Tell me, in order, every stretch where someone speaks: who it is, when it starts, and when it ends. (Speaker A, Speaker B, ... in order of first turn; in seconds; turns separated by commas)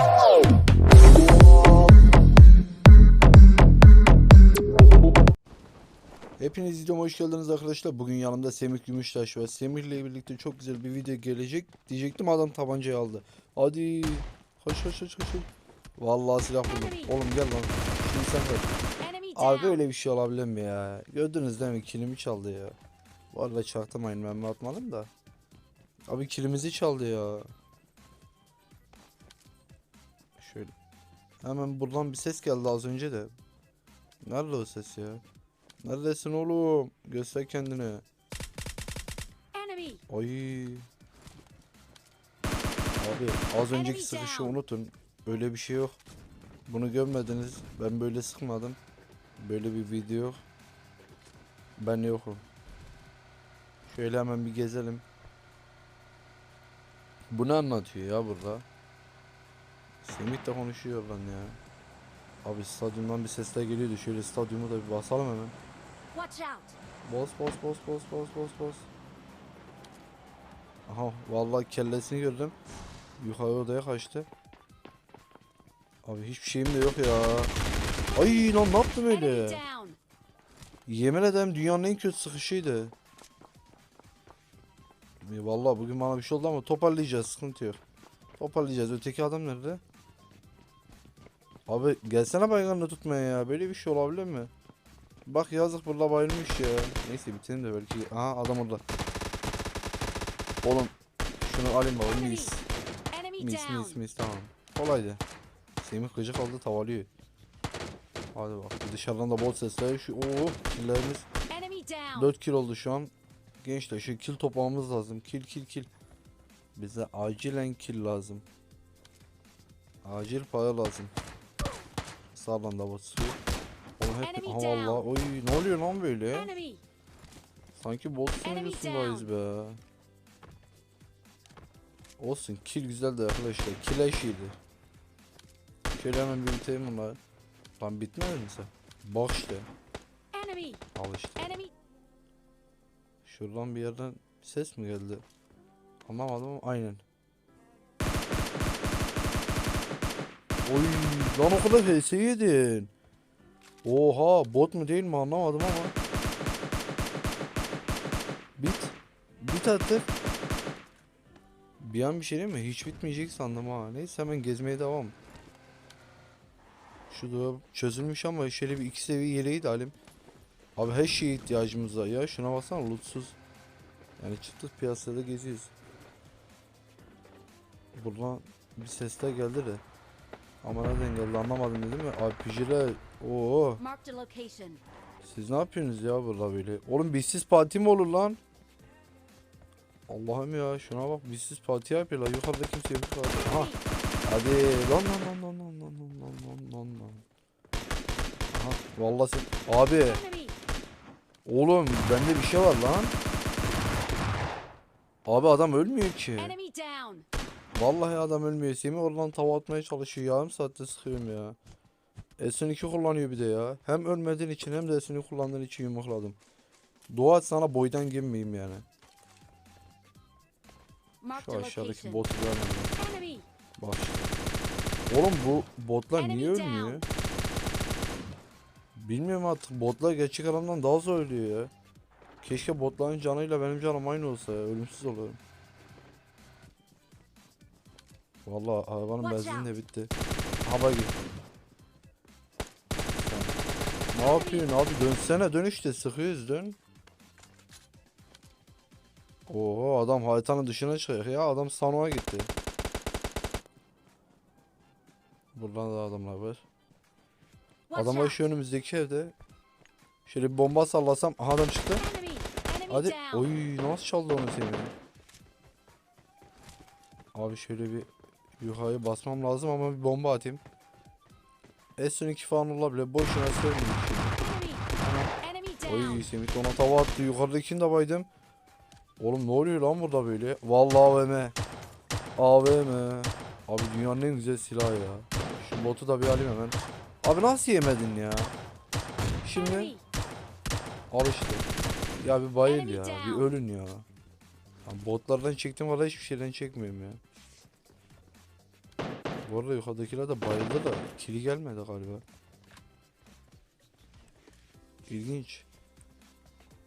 Speaker A: 6.4-18.7, Speaker B: 19.1-19.8, Speaker A: 19.4-22.8, Speaker A: 23.3-25.1, Speaker A: 26.1-27.5, Speaker A: 30.4-30.7, Speaker A: 31.4-33.3, Speaker A: 34.2-35.2, Speaker A: 35.8-38.0, Speaker B: 39.5-40.0, Speaker A: 40.1-40.9, Speaker A: 43.0-46.0, Speaker B: 43.8-44.5, Speaker A: 46.7-48.8, Speaker A: 49.4-50.4, Speaker A: 51.8-52.5, Speaker A: 53.9-55.0, Speaker A: 57.3-58.6, Speaker A: 60.0-61.6, Speaker A: 62.4-65.5, Speaker B: 66.1-66.7, Speaker A: 67.0-68.9, Speaker A: 70.9-72.5, Speaker A: 73.2-74.3, Speaker A: 76.0-77.5, Speaker A: 78.1-79.6, Speaker B: 78.2-80.0, Speaker A: 80.8-82.9, Speaker A: 85.2-87.8, Speaker A: 88.4-89.8, Speaker A: 91.7-94.5, Speaker A: 95.2-98.8, Speaker A: 100.6-102.6, Speaker B: 102.2-102.5, Speaker B: 103.1-104.0, Speaker A: 103.4-105.2, Speaker A: 105.8-107.1, Speaker A: 108.3-111.3, Speaker B: 111.5-112.2, Speaker A: 112.1-115.9, Speaker A: 116.7-118.4, Speaker A: 120.0-121.1, Speaker A: 122.3-123.4, Speaker A: 124.0-126.5, Speaker B: 124.3-125.0, Speaker B: 126.5-126.8, Speaker A: 127.7-129.8, Speaker B: 128.4-129.3, Speaker A: 132.2-134.6, Speaker A: 135.9-137.2, Speaker A: 137.8-139.7, Speaker B: 140.3-140.8, Speaker A: 140.9-141.6, Speaker A: 143.2-145.2, Speaker A: 146.0-147.0, Speaker A: 150.7-152.9, Speaker A: 153.8-155.9, Speaker A: 158.6-160.1, Speaker A: 161.8-165.2, Speaker A: 167.1-169.9, Speaker A: 170.8-173.4, Speaker A: 174.2-175.7, Speaker A: 177.9-179.8, Speaker A: 180.6-183.8, Speaker B: 183.8-184.8, Speaker A: 185.2-188.4, Speaker A: 190.1-193.7, Speaker B: 193.5-193.8, Speaker A: 194.2-197.2, Speaker A: 198.5-200.2, Speaker B: 200.1-200.5, Speaker A: 201.4-203.1, Speaker A: 205.2-206.5, Speaker B: 206.4-207.2, Speaker A: 207.7-211.6, Speaker A: 212.4-216.4, Speaker A: 217.1-218.8, Speaker B: 221.2-222.2, Speaker A: 221.3-222.9, Speaker B: 223.0-223.4, Speaker A: 223.8-224.3, Speaker A: 225.1-227.0, Speaker B: 226.2-227.0, Speaker A: 228.9-231.7, Speaker A: 232.4-235.4, Speaker A: 238.4-241.1, Speaker B: 239.2-239.7, Speaker A: 243.2-243.6, Speaker A: 244.1-246.8, Speaker B: 244.3-244.6, Speaker A: 249.5-252.5, Speaker A: 255.5-256.6, Speaker B: 257.9-258.4, Speaker A: 257.9-259.3, Speaker A: 260.2-262.1, Speaker B: 262.0-263.4, Speaker A: 262.9-264.9, Speaker A: 267.3-270.6, Speaker A: 272.0-274.4, Speaker B: 274.4-274.8, Speaker A: 275.0-275.3, Speaker B: 275.4-276.2, Speaker A: 275.8-278.3, Speaker A: 279.2-281.5, Speaker A: 282.4-288.5, Speaker A: 289.4-289.9, Speaker B: 289.7-290.0, Speaker A: 291.1-291.6, Speaker A: 292.2-294.1, Speaker B: 292.7-293.5, Speaker A: 294.8-297.2, Speaker A: 299.4-302.2, Speaker A: 305.1-305.6